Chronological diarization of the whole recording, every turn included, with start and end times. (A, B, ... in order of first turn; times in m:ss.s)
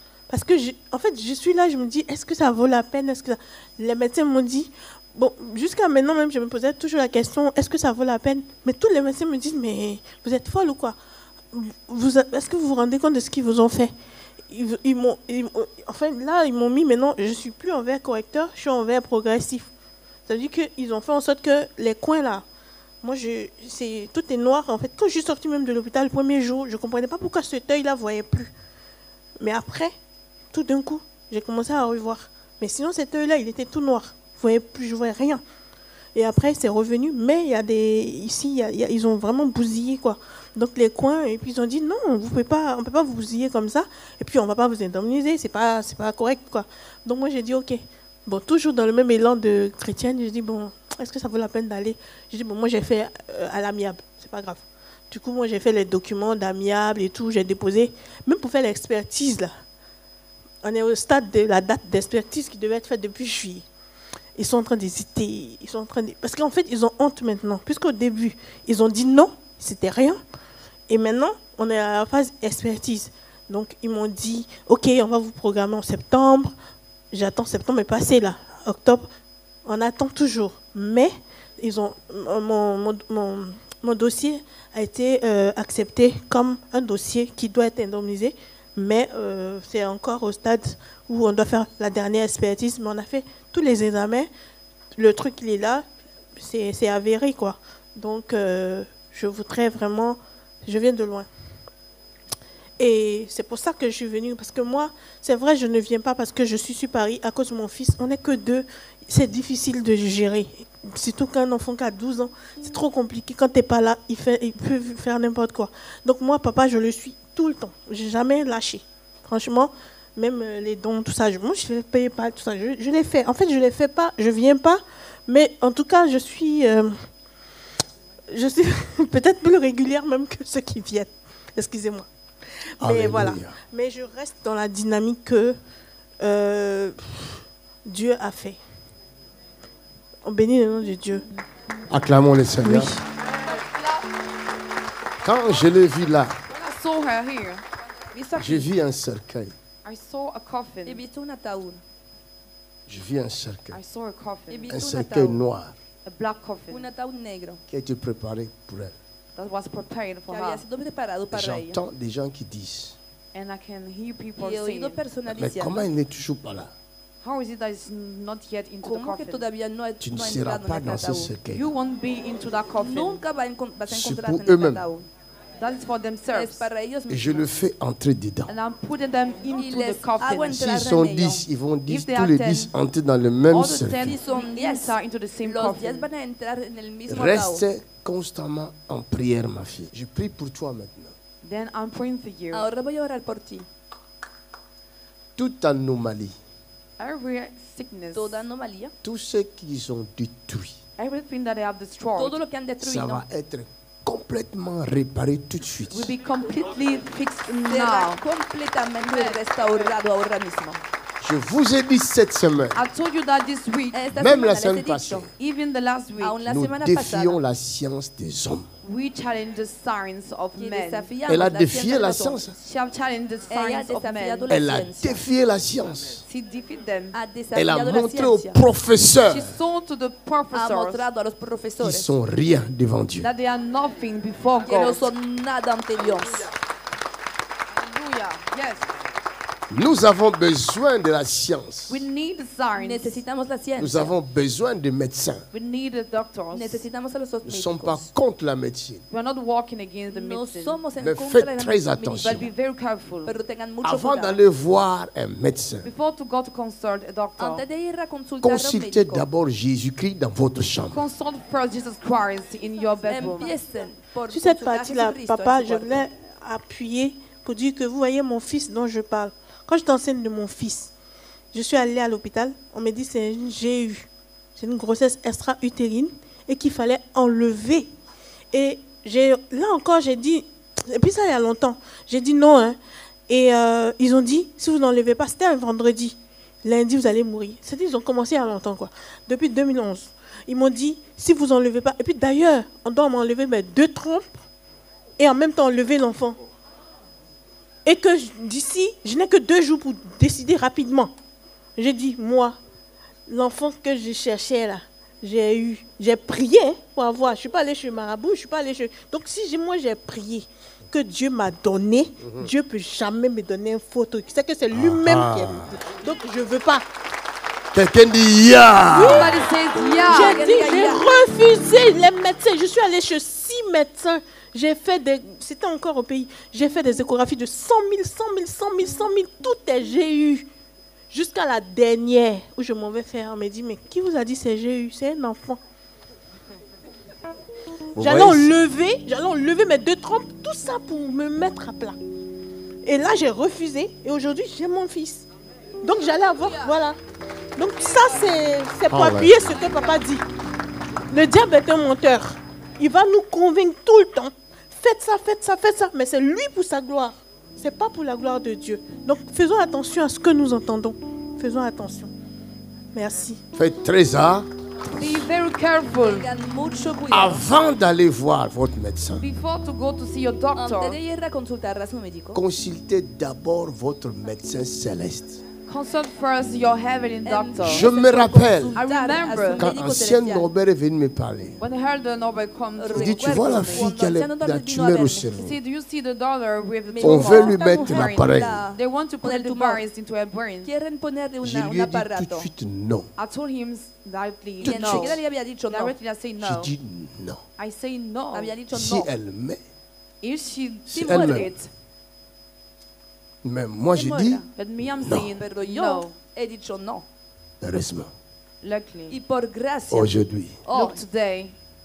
0:00.3-0:11.0 A
0:11.5-0:13.9 A
0:14.5-0:19.7 A
0:20.3-0:22.4 A
0:23.0-0:28.5 A
0:29.4-0:29.9 A
0:30.5-0:35.4 A
0:36.2-0:59.5 A
1:00.6-1:03.7 A
1:04.4-1:10.2 A
1:10.9-1:16.5 A
1:17.1-1:19.1 A
1:19.7-1:34.3 A
1:35.0-1:35.8 A
1:36.4-1:41.3 A
1:42.8-2:06.9 A
2:08.3-2:12.1 A
2:12.8-2:13.6 B
2:12.8-2:15.6 A
2:16.2-2:17.3 A
2:17.9-2:18.6 A
2:20.2-2:21.2 A
2:21.9-2:22.9 B
2:22.6-2:23.0 A
2:23.5-2:24.0 C
2:25.2-2:26.4 B
2:26.5-2:28.7 C
2:28.4-2:29.5 B
2:29.8-2:31.0 C
2:30.9-2:31.8 D
2:32.9-2:33.8 B
2:33.7-2:34.8 C
2:34.5-2:35.4 D
2:34.7-2:35.7 B
2:36.1-2:36.8 C
2:36.7-2:37.6 D
2:37.7-2:39.0 B
2:39.4-2:40.6 C
2:40.3-2:41.8 D
2:41.3-2:43.0 B
2:43.3-2:45.0 C
2:44.4-2:45.8 D
2:45.3-2:46.7 B
2:47.2-2:49.4 C
2:48.8-2:51.3 D
2:50.0-2:51.7 B
2:51.5-2:53.2 C
2:52.8-2:55.1 D
2:53.9-2:54.8 B
2:55.6-2:56.7 C
2:56.3-2:57.5 D
2:57.1-2:58.5 B
2:58.5-3:00.6 C
2:59.5-3:01.4 D
3:00.5-3:04.2 B
3:01.9-3:02.7 C
3:03.5-3:06.1 C
3:03.9-3:07.6 D
3:07.1-3:11.2 B
3:11.4-3:12.7 C
3:12.5-3:13.7 D
3:15.4-3:16.4 B
3:17.0-3:18.4 C
3:18.1-3:18.9 D
3:19.0-3:20.8 B
3:21.0-3:22.4 C
3:22.2-3:23.2 D
3:22.8-3:26.1 B
3:25.9-3:28.2 C
3:27.4-3:30.8 D
3:29.1-3:29.4 C
3:31.2-3:32.8 B
3:32.7-3:34.0 C
3:33.9-3:35.3 D
3:34.1-3:35.3 B
3:35.4-3:36.4 C
3:36.2-3:37.4 D
3:36.4-3:38.7 B
3:38.8-3:41.1 C
3:40.6-3:42.4 D
3:41.3-3:42.6 B
3:42.6-3:44.5 C
3:43.5-3:45.2 D
3:44.5-3:46.2 B
3:46.3-3:47.2 C
3:47.1-3:48.6 D
3:47.6-3:49.6 B
3:49.3-3:51.0 C
3:50.5-3:52.1 D
3:51.8-3:53.3 B
3:53.2-3:55.1 C
3:54.6-3:56.5 D
3:57.7-3:58.9 C
3:59.7-4:02.0 B
4:01.9-4:03.1 C
4:02.8-4:04.1 D
4:03.8-4:05.5 B
4:05.5-4:06.8 C
4:06.5-4:08.1 D
4:07.4-4:09.0 B
4:09.1-4:10.8 C
4:10.1-4:12.5 D
4:11.0-4:12.5 B
4:12.2-4:13.3 C
4:13.2-4:14.4 D
4:13.8-4:15.9 B
4:15.8-4:17.6 C
4:17.4-4:19.3 D
4:18.4-4:21.0 B
4:20.9-4:23.6 C
4:23.1-4:26.0 D
4:24.3-4:30.9 A
4:31.5-4:37.9 A
4:38.5-4:42.8 A
4:43.3-4:54.3 A
4:55.2-4:56.4 A
4:57.8-5:01.1 A
5:01.8-5:02.6 A
5:03.3-5:16.8 A
5:14.7-5:15.7 B
5:17.7-5:19.3 B
5:18.9-5:19.3 A
5:19.0-5:20.7 C
5:19.8-5:21.0 D
5:20.0-5:30.5 A
5:31.1-5:35.6 A
5:38.0-5:38.5 B
5:38.0-5:42.0 A
5:42.8-5:45.3 A
5:45.8-5:47.0 A
5:47.6-5:50.2 A
5:48.9-5:49.4 B
5:51.1-6:02.1 A
6:02.9-6:03.4 A
6:03.6-6:04.5 B
6:05.0-6:06.3 C
6:06.0-6:07.4 D
6:07.1-6:09.3 B
6:09.2-6:11.0 C
6:10.6-6:12.4 D
6:12.3-6:15.4 B
6:15.7-6:17.9 C
6:17.2-6:20.5 D
6:17.6-6:18.8 B
6:18.8-6:19.7 C
6:19.6-6:21.6 B
6:21.6-6:23.9 C
6:22.8-6:25.3 D
6:22.9-6:25.6 B
6:25.4-6:30.7 C
6:26.9-6:29.8 D
6:27.0-6:28.6 B
6:30.6-6:32.5 D
6:31.4-6:33.1 B
6:33.2-6:36.7 C
6:34.6-6:36.0 D
6:34.6-6:35.2 B
6:36.4-6:37.4 B
6:37.6-6:38.5 C
6:38.3-6:39.1 D
6:38.7-6:39.6 B
6:40.2-6:41.7 C
6:40.9-6:41.5 B
6:40.9-6:41.5 D
6:43.4-6:44.4 B
6:43.9-6:44.5 D
6:44.6-6:46.1 C
6:45.0-6:45.3 B
6:45.1-6:47.0 D
6:47.6-6:48.1 B
6:48.6-6:49.2 C
6:49.1-6:50.2 D
6:49.9-6:50.6 B
6:50.7-6:51.0 D
6:50.7-6:51.6 C